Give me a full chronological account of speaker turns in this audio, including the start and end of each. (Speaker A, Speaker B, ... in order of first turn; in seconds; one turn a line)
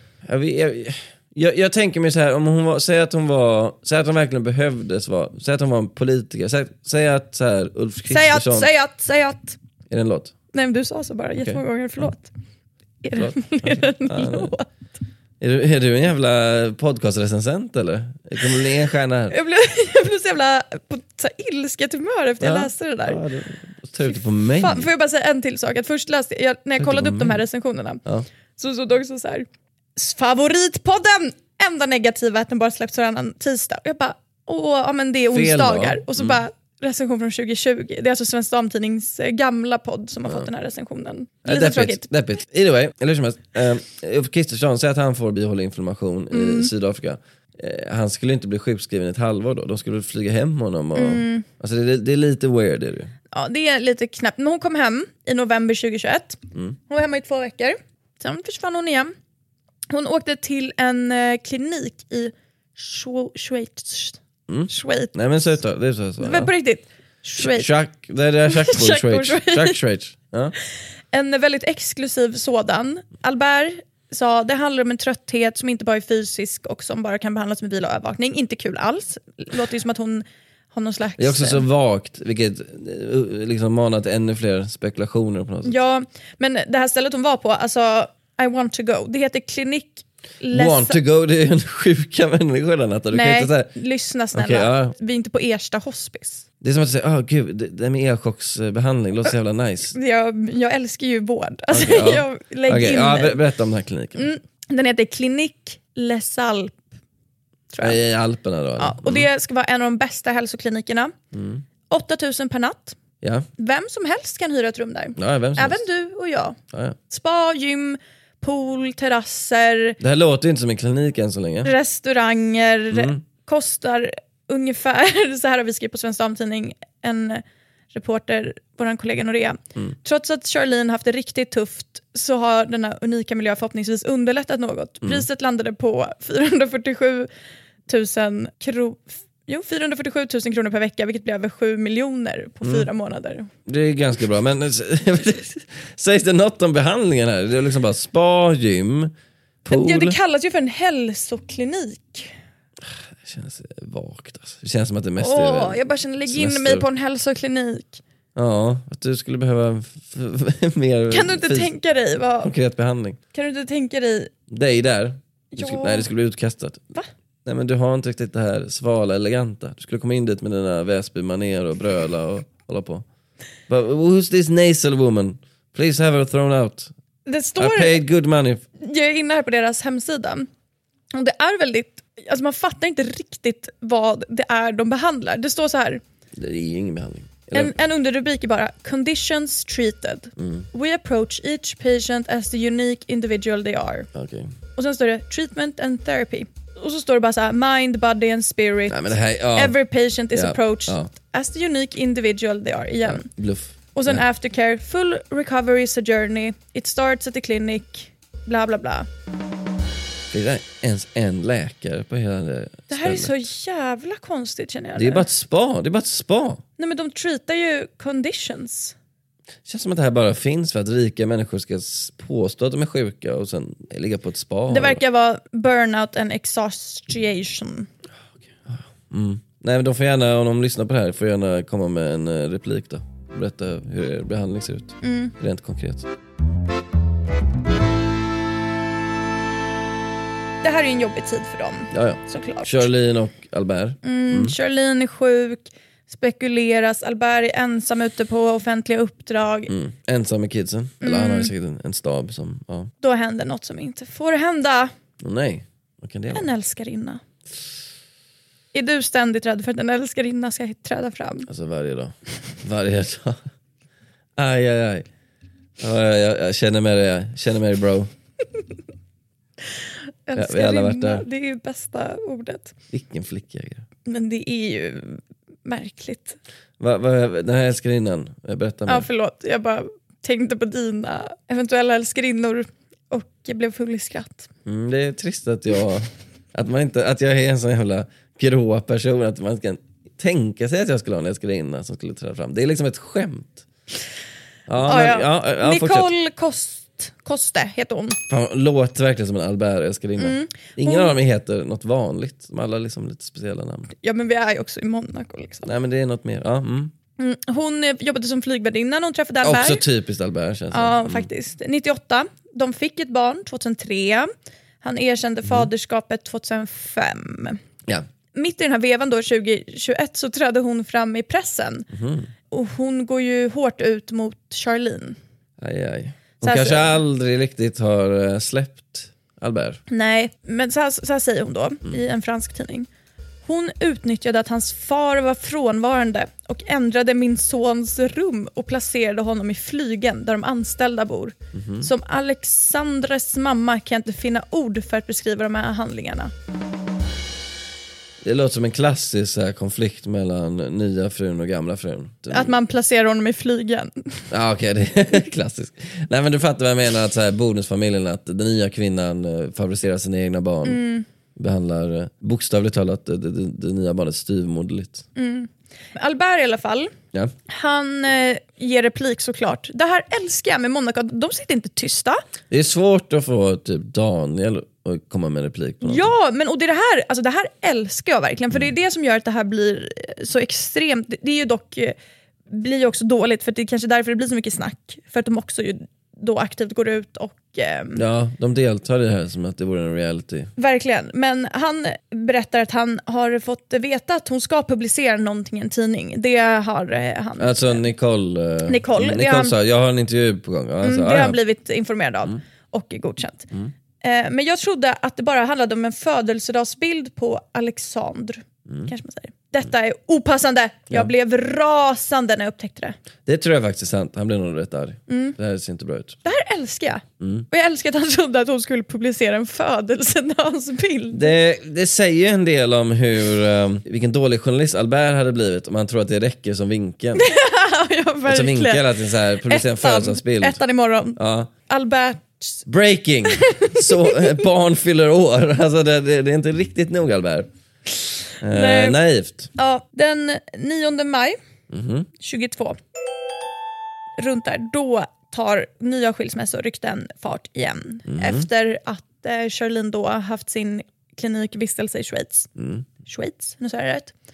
Speaker A: 0.2-8.7
Speaker B: 8.1-9.6
Speaker A: 9.9-10.3
Speaker B: 10.5-12.3
Speaker B: 13.0-14.7
Speaker A: 13.1-14.5
Speaker A: 15.4-19.3
Speaker B: 19.3-23.2
Speaker A: 22.4-24.9
Speaker B: 24.6-28.0
Speaker A: 26.8-27.4
Speaker B: 28.6-42.1
Speaker A: 35.3-36.4
Speaker A: 41.4-53.1
Speaker B: 46.3-46.7
Speaker B: 50.9-51.5
Speaker B: 53.3-59.1
Speaker B: 59.9-65.1
Speaker A: 64.5-66.5
Speaker B: 66.2-67.7
Speaker A: 67.4-70.5
Speaker B: 68.5-69.8
Speaker B: 71.1-81.6
Speaker A: 81.2-85.8
Speaker B: 85.6-91.0
Speaker A: 90.5-93.7
Speaker B: 93.1-96.4
Speaker A: 94.3-94.9
Speaker A: 96.6-99.9
Speaker B: 99.9-103.4
Speaker A: 101.7-104.3
Speaker B: 104.1-106.8
Speaker B: 107.7-108.0
Speaker A: 107.8-109.3
Speaker B: 108.8-111.1
Speaker A: 111.3-111.6
Speaker B: 111.9-113.0
Speaker A: 113.2-113.5
Speaker B: 113.6-116.6
Speaker A: 115.2-115.8
Speaker A: 116.7-117.0
Speaker B: 117.1-120.0
Speaker A: 120.0-121.7
Speaker B: 121.6-137.3
Speaker A: 122.9-123.2
Speaker B: 137.9-143.5
Speaker A: 142.6-142.9
Speaker A: 143.7-149.1
Speaker A: 149.6-150.2
Speaker B: 149.7-152.3
Speaker A: 152.8-156.8
Speaker B: 155.2-158.0
Speaker A: 158.3-161.7
Speaker B: 161.1-162.5
Speaker A: 162.4-163.2
Speaker B: 163.3-164.3
Speaker A: 164.5-166.9
Speaker B: 165.5-166.1
Speaker A: 167.4-173.0
Speaker A: 173.7-176.9
Speaker B: 177.2-178.0
Speaker A: 177.6-178.6
Speaker B: 178.8-180.5
Speaker B: 181.1-186.0
Speaker A: 186.3-187.8
Speaker B: 187.5-194.1
Speaker A: 190.4-190.7
Speaker A: 194.1-194.5
Speaker B: 194.7-203.3
Speaker A: 198.9-199.8
Speaker A: 200.3-201.1
Speaker A: 203.0-204.2
Speaker B: 203.9-209.1
Speaker A: 210.3-213.3
Speaker B: 212.9-215.2
Speaker A: 214.9-216.6
Speaker B: 216.8-218.9
Speaker A: 219.7-225.0
Speaker B: 224.7-227.9
Speaker A: 228.5-236.1
Speaker B: 235.0-235.3
Speaker B: 240.6-242.9
Speaker A: 241.9-244.5
Speaker B: 244.0-249.7
Speaker A: 249.7-252.9
Speaker B: 251.0-251.5
Speaker B: 253.0-254.9
Speaker A: 255.2-256.5
Speaker B: 256.3-257.2
Speaker B: 258.7-261.5
Speaker A: 261.5-263.4
Speaker A: 264.4-265.1
Speaker A: 265.8-268.1
Speaker B: 270.3-272.7
Speaker A: 270.4-271.2
Speaker A: 272.9-273.8
Speaker B: 274.1-276.4
Speaker A: 276.8-279.1
Speaker B: 278.9-284.5
Speaker A: 284.6-293.6
Speaker A: 294.7-296.1
Speaker B: 294.8-298.2
Speaker A: 298.3-303.9
Speaker B: 300.2-301.1
Speaker B: 304.0-305.7
Speaker A: 305.6-306.9
Speaker B: 307.2-309.8
Speaker A: 309.4-311.3
Speaker B: 310.7-314.3
Speaker B: 314.8-317.6
Speaker B: 318.3-321.9
Speaker A: 321.9-322.3
Speaker B: 322.5-325.2
Speaker A: 325.6-329.8
Speaker B: 326.4-327.0
Speaker B: 329.9-332.9
Speaker B: 333.4-346.3
Speaker A: 341.5-341.9
Speaker A: 348.2-352.5
Speaker B: 352.3-354.3
Speaker A: 354.3-360.8
Speaker B: 360.6-361.0
Speaker A: 361.4-365.0
Speaker B: 365.1-366.9
Speaker B: 367.5-372.2
Speaker A: 372.5-376.1
Speaker B: 375.8-381.9
Speaker B: 382.5-388.0
Speaker A: 387.9-390.5
Speaker B: 390.6-397.8
Speaker A: 397.4-401.4
Speaker B: 398.7-399.5
Speaker B: 400.8-403.5
Speaker B: 404.0-412.9
Speaker A: 413.2-416.2
Speaker B: 415.1-415.4
Speaker B: 416.2-421.3
Speaker A: 417.2-417.4
Speaker A: 421.1-427.2
Speaker B: 427.1-428.8
Speaker A: 428.2-430.6
Speaker B: 429.4-432.6
Speaker A: 431.1-431.5
Speaker A: 432.6-437.5
Speaker B: 433.4-434.0
Speaker A: 438.4-439.5
Speaker B: 438.5-439.0
Speaker B: 439.5-441.4
Speaker A: 441.7-442.1
Speaker B: 442.2-442.8
Speaker B: 444.2-452.5
Speaker A: 448.1-448.4
Speaker A: 452.6-452.9
Speaker B: 453.0-454.1